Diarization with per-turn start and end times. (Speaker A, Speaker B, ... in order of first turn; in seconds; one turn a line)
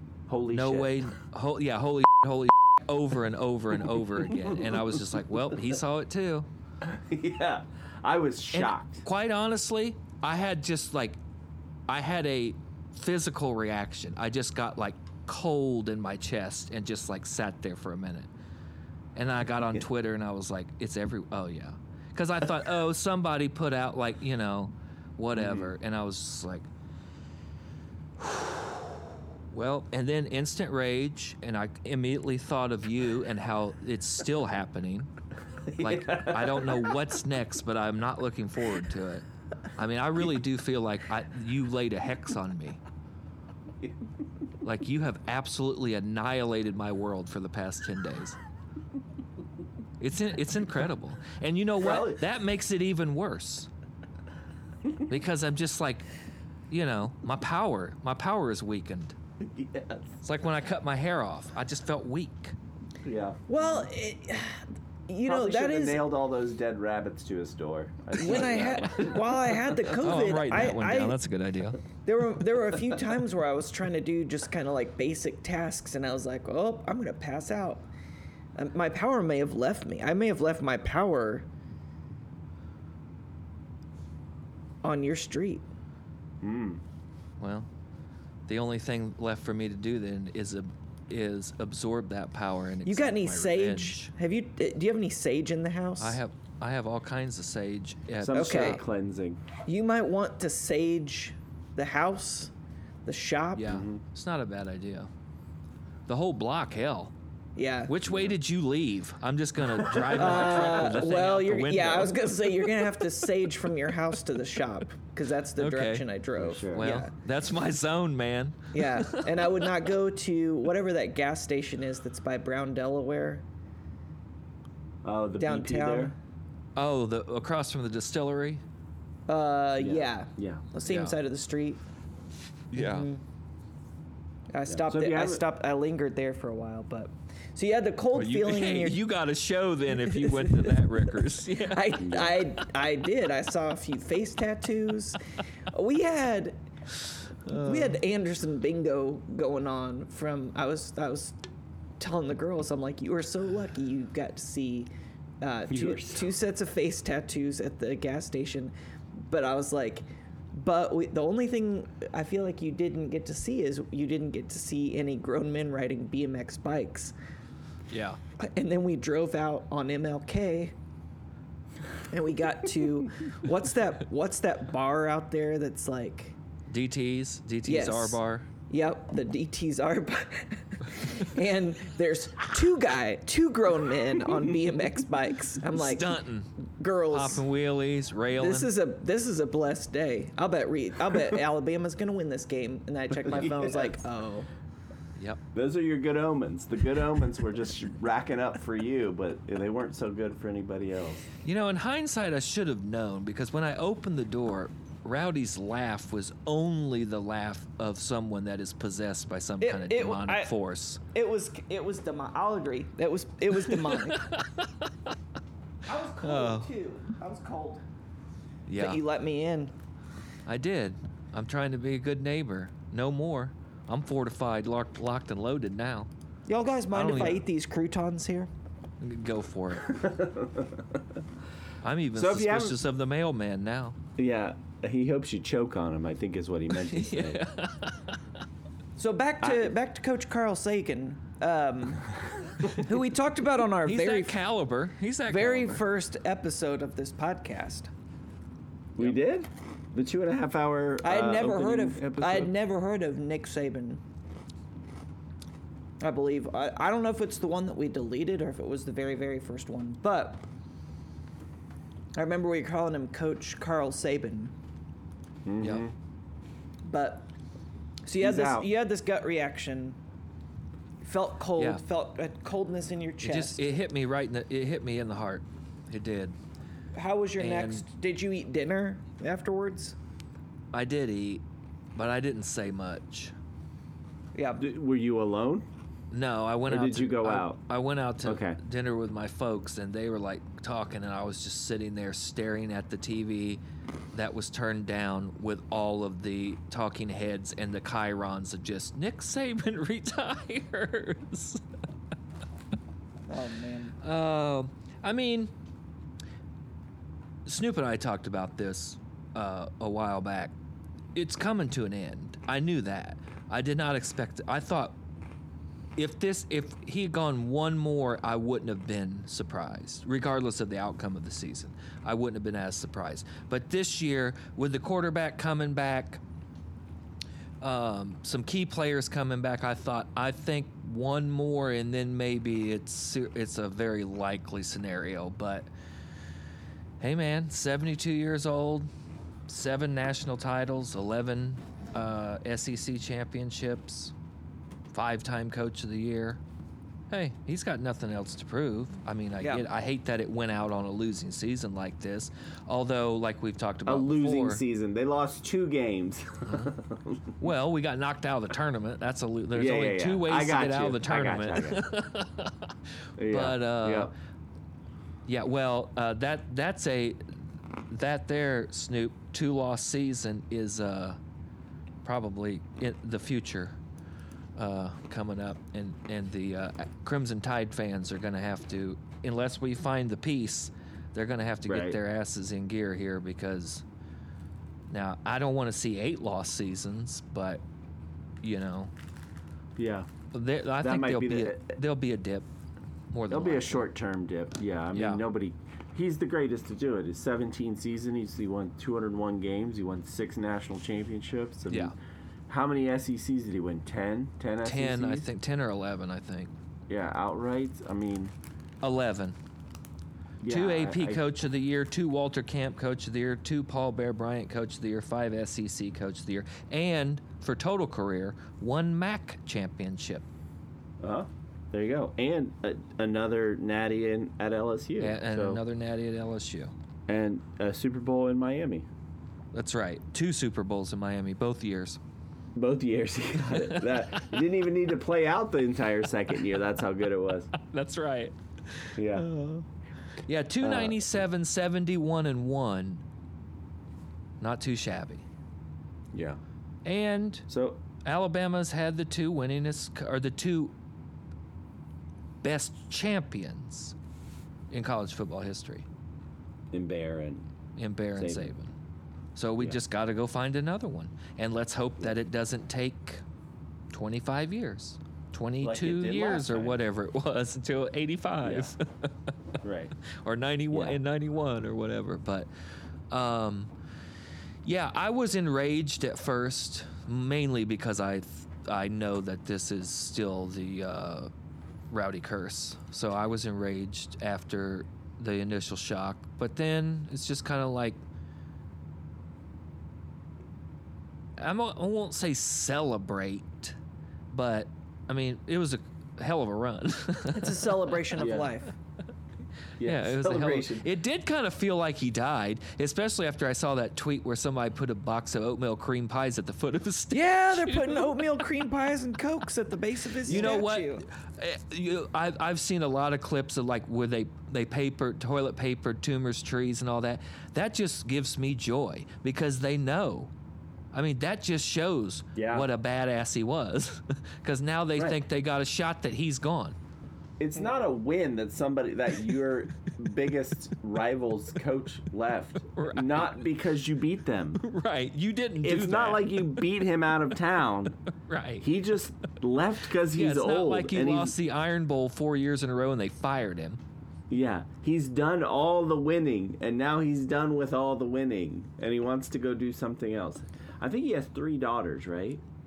Speaker A: 0.3-1.0
Speaker B: 0.5-6.5
Speaker A: 6.8-9.0
Speaker B: 8.5-11.2
Speaker B: 11.9-18.3
Speaker B: 19.1-26.7
Speaker A: 25.3-25.7
Speaker B: 28.2-29.0
Speaker B: 29.5-35.1
Speaker A: 35.7-36.9
Speaker B: 35.8-39.2
Speaker B: 39.8-42.8
Speaker B: 44.6-48.4
Speaker B: 50.0-53.7
Speaker A: 51.8-52.2
Speaker B: 55.0-56.0
Speaker B: 56.7-59.1
Speaker A: 59.4-60.1
Speaker B: 60.2-62.5
Speaker A: 63.0-63.4
Speaker C: 63.5-66.1
Speaker A: 65.2-69.8
Speaker C: 68.2-71.2
Speaker B: 69.9-71.8
Speaker C: 72.0-77.8
Speaker C: 78.6-81.5
Speaker C: 84.8-85.6
Speaker A: 86.4-86.8
Speaker B: 87.4-87.7
Speaker B: 88.5-94.1
Speaker C: 92.8-96.2
Speaker B: 96.0-98.8
Speaker A: 98.2-99.4
Speaker C: 98.3-98.8
Speaker C: 99.7-102.5
Speaker C: 103.0-103.8
Speaker B: 103.5-105.1
Speaker A: 103.7-104.0
Speaker B: 106.1-107.1
Speaker C: 107.5-107.9
Speaker B: 107.9-112.7
Speaker A: 108.1-108.3
Speaker A: 109.8-110.7
Speaker C: 110.2-117.1
Speaker B: 115.6-116.0
Speaker A: 116.4-116.9
Speaker B: 116.8-119.6
Speaker C: 118.7-123.4
Speaker A: 125.0-126.1
Speaker C: 125.4-126.2
Speaker B: 126.8-128.6
Speaker C: 129.3-131.8
Speaker A: 129.8-130.7
Speaker B: 130.8-131.2
Speaker B: 132.7-133.1
Speaker C: 132.7-133.2
Speaker C: 134.5-139.0
Speaker A: 134.7-135.4
Speaker B: 138.1-142.0
Speaker C: 140.1-145.2
Speaker A: 142.0-142.3
Speaker C: 145.7-146.6
Speaker B: 147.5-148.0
Speaker C: 147.5-151.4
Speaker C: 152.0-154.9
Speaker C: 155.4-167.1
Speaker A: 155.7-156.3
Speaker B: 167.9-168.2
Speaker C: 168.4-170.7
Speaker C: 172.1-176.3
Speaker B: 176.7-178.5
Speaker C: 177.6-178.2
Speaker C: 178.7-187.4
Speaker B: 185.7-186.5
Speaker B: 187.1-188.7
Speaker C: 188.3-194.5
Speaker A: 193.3-193.9
Speaker A: 195.5-201.2
Speaker B: 201.4-211.0
Speaker C: 209.6-210.5
Speaker C: 211.1-214.3
Speaker B: 213.7-214.7
Speaker C: 215.8-217.8
Speaker B: 216.2-216.7
Speaker B: 218.7-219.0
Speaker C: 218.8-219.7
Speaker B: 220.4-226.1
Speaker C: 226.5-228.5
Speaker B: 226.9-227.4
Speaker B: 229.0-230.1
Speaker A: 229.9-230.9
Speaker B: 231.8-233.9
Speaker A: 232.1-232.8
Speaker A: 234.2-237.4
Speaker B: 236.7-238.2
Speaker C: 239.0-242.1
Speaker A: 239.4-239.7
Speaker C: 242.6-244.4
Speaker B: 243.8-245.8
Speaker C: 245.3-247.9
Speaker A: 248.9-252.5
Speaker C: 251.0-254.0
Speaker C: 256.0-260.4
Speaker C: 262.1-264.5
Speaker A: 265.4-265.9
Speaker C: 266.8-267.3
Speaker C: 268.0-270.0
Speaker A: 268.2-268.7
Speaker C: 271.0-273.6
Speaker B: 271.6-271.8
Speaker B: 273.2-276.3
Speaker C: 276.9-279.9
Speaker B: 277.4-277.8
Speaker B: 280.7-281.4
Speaker B: 281.9-283.3
Speaker C: 284.3-284.6
Speaker A: 284.6-285.7
Speaker B: 286.1-293.6
Speaker A: 286.7-287.6
Speaker A: 288.2-288.6
Speaker B: 294.1-301.6
Speaker C: 303.3-303.9
Speaker B: 304.0-305.5
Speaker B: 307.4-310.5
Speaker B: 311.1-314.9
Speaker B: 315.9-326.2
Speaker B: 327.6-335.7
Speaker B: 337.0-338.9
Speaker B: 339.5-344.1
Speaker B: 344.9-346.4
Speaker B: 347.1-354.6
Speaker C: 349.4-349.6
Speaker A: 353.8-357.3
Speaker B: 357.4-362.7
Speaker A: 359.5-361.8
Speaker A: 363.2-364.1
Speaker B: 363.3-364.1
Speaker B: 365.3-371.2
Speaker B: 372.0-373.8
Speaker B: 374.6-383.8
Speaker A: 381.6-382.0
Speaker B: 384.9-387.6
Speaker B: 388.4-388.9
Speaker A: 389.8-390.1
Speaker B: 390.3-392.4
Speaker A: 390.8-391.7
Speaker B: 393.1-393.9
Speaker A: 393.3-401.9
Speaker B: 394.9-395.2
Speaker B: 401.7-401.9
Speaker A: 402.5-405.2
Speaker B: 404.6-406.5
Speaker A: 406.9-408.3
Speaker B: 408.8-409.4
Speaker A: 410.4-411.2
Speaker B: 410.5-420.2
Speaker A: 421.0-425.6
Speaker B: 425.0-426.7
Speaker A: 427.1-428.9
Speaker B: 429.5-432.0
Speaker A: 432.5-437.5
Speaker B: 433.5-434.0
Speaker B: 437.5-438.9
Speaker A: 439.0-439.3
Speaker C: 439.2-439.6
Speaker B: 440.2-443.0
Speaker A: 440.6-441.1
Speaker B: 444.4-445.2
Speaker A: 446.1-446.4
Speaker B: 446.8-447.4
Speaker A: 447.5-447.8
Speaker B: 448.0-450.7
Speaker B: 452.4-453.9
Speaker B: 454.7-455.9
Speaker A: 456.7-457.4
Speaker B: 457.8-458.7
Speaker A: 458.1-458.5
Speaker B: 459.4-463.2
Speaker B: 463.9-469.3
Speaker A: 465.6-466.8
Speaker A: 468.4-468.7
Speaker A: 469.6-469.9
Speaker B: 470.1-472.5
Speaker A: 470.7-471.0
Speaker B: 473.1-473.7
Speaker B: 474.6-481.3
Speaker B: 481.9-488.0
Speaker B: 491.4-493.8
Speaker B: 494.3-498.0
Speaker C: 497.3-498.7
Speaker A: 498.2-498.5
Speaker A: 499.8-500.9
Speaker B: 499.8-508.6
Speaker C: 507.1-511.0
Speaker B: 510.2-520.3
Speaker A: 510.2-510.6
Speaker B: 520.9-526.8
Speaker A: 522.3-522.7
Speaker A: 527.4-534.6
Speaker B: 532.7-533.4
Speaker B: 534.6-536.7
Speaker A: 535.6-538.0
Speaker B: 538.2-538.7
Speaker A: 538.6-541.4
Speaker B: 540.1-543.8
Speaker A: 544.3-552.4